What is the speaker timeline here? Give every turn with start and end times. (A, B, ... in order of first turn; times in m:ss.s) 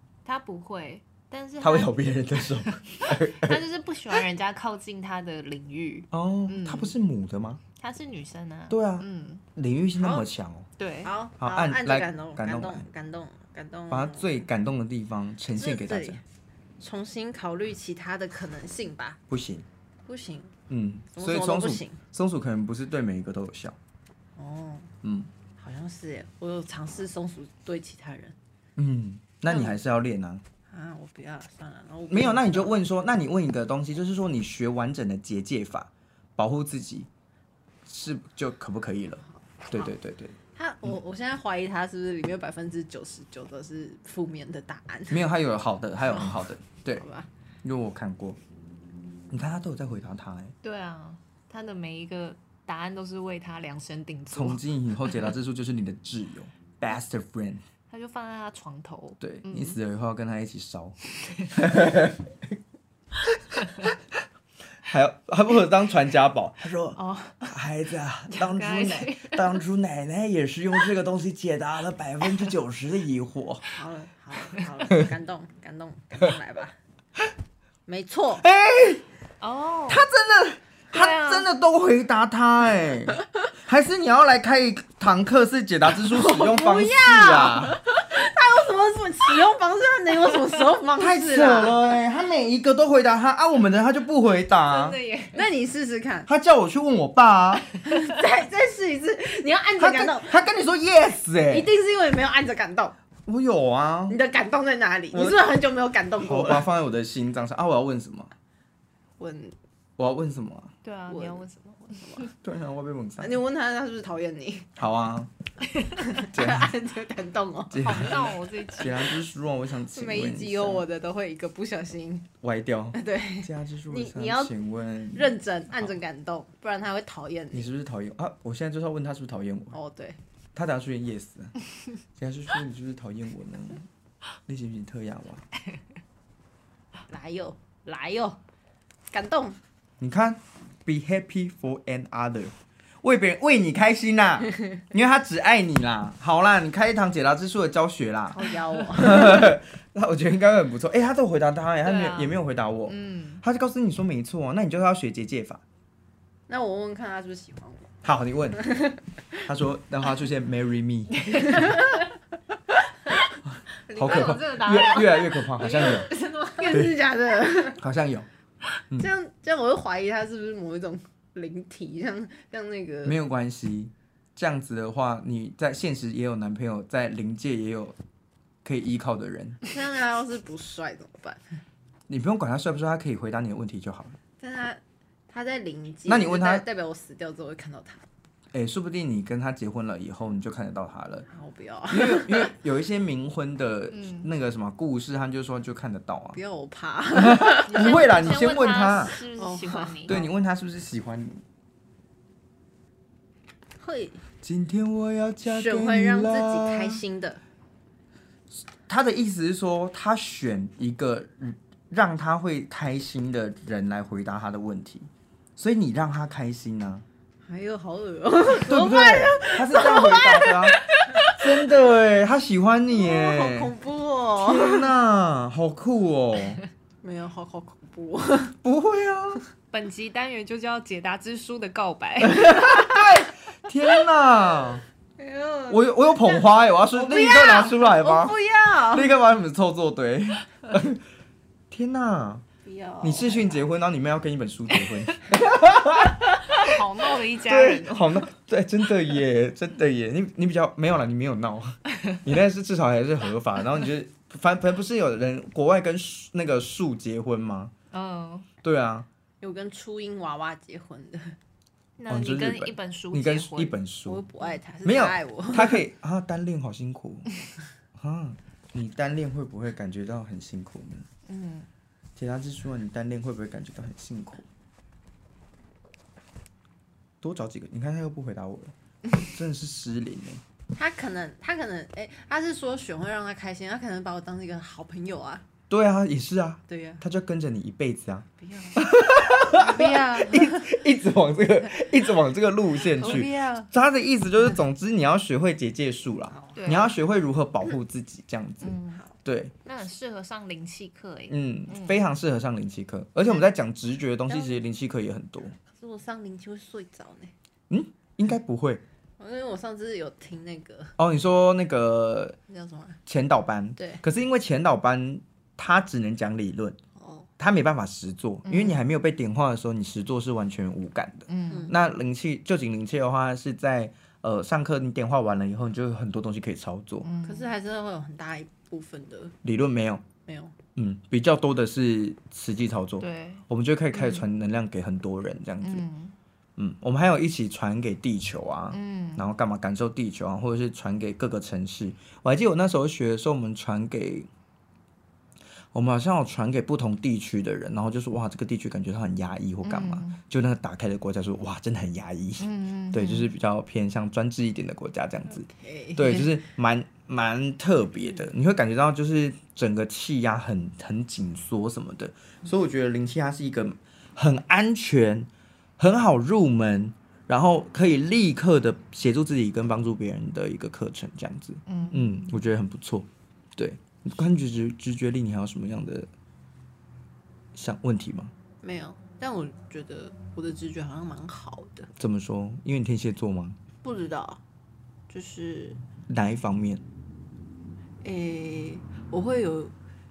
0:00.2-0:06.9 A
0:01.6-0:03.6 B
0:06.1-0:07.6 B
0:07.8-0:09.4 A
0:08.7-0:10.7 B
0:10.0-0:10.3 C
0:10.8-0:11.1 A
0:11.0-0:14.3 C
0:11.4-0:12.8 B
0:13.9-0:16.2 B
0:15.5-0:16.2 C
0:16.8-0:19.2 C
0:19.3-0:19.7 B
0:20.0-0:20.5 C
0:20.7-0:23.8 B
0:21.1-0:22.0 C
0:24.4-0:24.9 C
0:25.0-0:25.3 B
0:25.6-0:28.4 C
0:28.8-0:30.4 B
0:29.5-0:29.7 C
0:30.7-0:32.7 C
0:32.1-0:37.1 B
0:37.8-0:40.9 B
0:40.5-0:45.2 C
0:45.1-0:47.0 B
0:46.1-0:47.3 C
0:47.6-0:48.4 B
0:49.3-0:50.5 B
0:50.6-0:55.2 A
0:54.3-0:57.6 B
0:57.9-0:59.8 A
0:59.2-1:01.0 B
1:01.5-1:02.3 B
1:04.9-1:13.7 B
1:07.0-1:07.6 A
1:08.3-1:09.6 A
1:13.7-1:16.8 C
1:17.9-1:18.4 C
1:18.4-1:19.0 B
1:19.4-1:20.0 A
1:19.9-1:27.8 B
1:20.9-1:21.5 A
1:26.0-1:31.8 C
1:31.0-1:35.0 B
1:34.6-1:35.4 A
1:35.3-1:36.3 C
1:36.3-1:37.7 B
1:37.8-1:40.4 C
1:39.8-1:41.7 B
1:41.5-1:42.9 C
1:43.2-1:44.2 B
1:44.1-1:46.6 C
1:45.1-1:45.5 B
1:46.2-1:48.3 B
1:49.2-1:49.6 C
1:50.0-1:50.7 B
1:50.8-1:52.2 A
1:51.1-1:52.3 C
1:52.4-1:53.4 B
1:53.2-1:54.7 C
1:54.8-1:55.3 B
1:56.0-1:58.3 C
1:56.3-1:56.7 B
1:57.7-2:00.8 B
1:57.8-1:59.0 A
1:59.9-2:02.3 C
2:02.4-2:05.3 B
2:02.9-2:04.5 C
2:05.1-2:07.7 C
2:07.5-2:09.8 B
2:09.7-2:10.2 C
2:10.5-2:11.5 B
2:12.2-2:13.8 B
2:14.5-2:15.4 B
2:17.1-2:18.4 C
2:19.1-2:19.6 C
2:20.0-2:35.6 B
2:28.3-2:29.5 C
2:31.8-2:32.4 A
2:32.9-2:33.4 A
2:36.5-2:37.9 C
2:38.0-2:38.6 B
2:38.5-2:39.0 C
2:39.4-2:41.7 B
2:41.3-2:42.1 C
2:41.4-2:41.8 A
2:43.5-2:46.1 B
2:43.9-2:46.6 A
2:44.1-2:44.8 C
2:45.6-2:47.8 C
2:46.7-2:46.9 B
2:47.8-2:48.3 B
2:49.0-2:53.2 C
2:53.0-2:58.0 B
2:58.6-2:59.6 B
2:59.6-3:01.4 C
3:02.1-3:04.2 B
3:04.4-3:08.0 C
3:06.1-3:06.6 B
3:08.5-3:11.2 B
3:11.3-3:12.6 C
3:11.9-3:16.4 B
3:13.9-3:14.3 A
3:16.3-3:18.5 C
3:17.1-3:19.1 B
3:17.7-3:20.2 A
3:19.4-3:20.3 C
3:20.0-3:21.4 B
3:23.8-3:24.2 C
3:24.4-3:27.0 B
3:25.5-3:27.4 C
3:28.8-3:37.0 B
3:37.4-3:41.4 C
3:38.5-3:43.7 B
3:42.9-3:44.8 C
3:44.4-3:46.6 B
3:47.0-3:48.5 C
3:48.6-3:49.4 B
3:49.7-3:52.8 A
3:52.2-3:54.8 B
3:55.2-3:59.1 C
3:55.7-4:01.0 B
4:01.7-4:02.4 B
4:02.6-4:03.5 C
4:03.0-4:06.8 B
4:06.5-4:08.2 A
4:07.4-4:17.7 B
4:17.9-4:18.5 A
4:18.6-4:19.1 B
4:19.4-4:21.4 C
4:22.0-4:23.8 A
4:22.1-4:24.2 B
4:24.0-4:25.8 C
4:24.8-4:27.3 B
4:27.9-4:31.1 B
4:31.3-4:31.7 A
4:32.2-4:34.4 B
4:37.2-4:40.4 B
4:40.7-4:45.4 C
4:45.7-4:59.5 B
4:46.7-4:47.0 C
4:48.4-4:50.8 C
4:52.9-4:53.7 C
4:56.3-4:56.8 C
4:56.6-4:56.9 A
4:58.6-4:59.0 A
4:59.6-5:02.0 A
5:01.3-5:05.6 B
5:04.3-5:04.6 C
5:05.7-5:07.3 C
5:07.7-5:08.8 B
5:09.2-5:10.9 C
5:11.0-5:12.4 B
5:12.5-5:13.0 C
5:13.0-5:16.8 B
5:13.8-5:14.0 C
5:17.0-5:17.3 C
5:17.4-5:27.1 B
5:18.4-5:18.8 A
5:21.3-5:21.7 A
5:21.5-5:21.8 C
5:27.0-5:27.5 A
5:27.2-5:29.3 C
5:29.4-5:30.0 B
5:30.2-5:30.5 C
5:30.8-5:35.8 B
5:33.0-5:34.2 A
5:35.6-5:36.2 A
5:36.6-5:44.3 B
5:38.7-5:39.2 A
5:45.7-6:16.1 B
5:49.6-5:50.2 A
5:52.4-5:53.3 A
5:55.3-5:56.3 C
6:11.7-6:12.3 A
6:17.5-6:18.3 B
6:18.6-6:21.9 C
6:22.0-6:23.6 B
6:23.8-6:24.4 C
6:25.1-6:25.8 C
6:26.1-6:26.8 B
6:28.0-6:29.7 C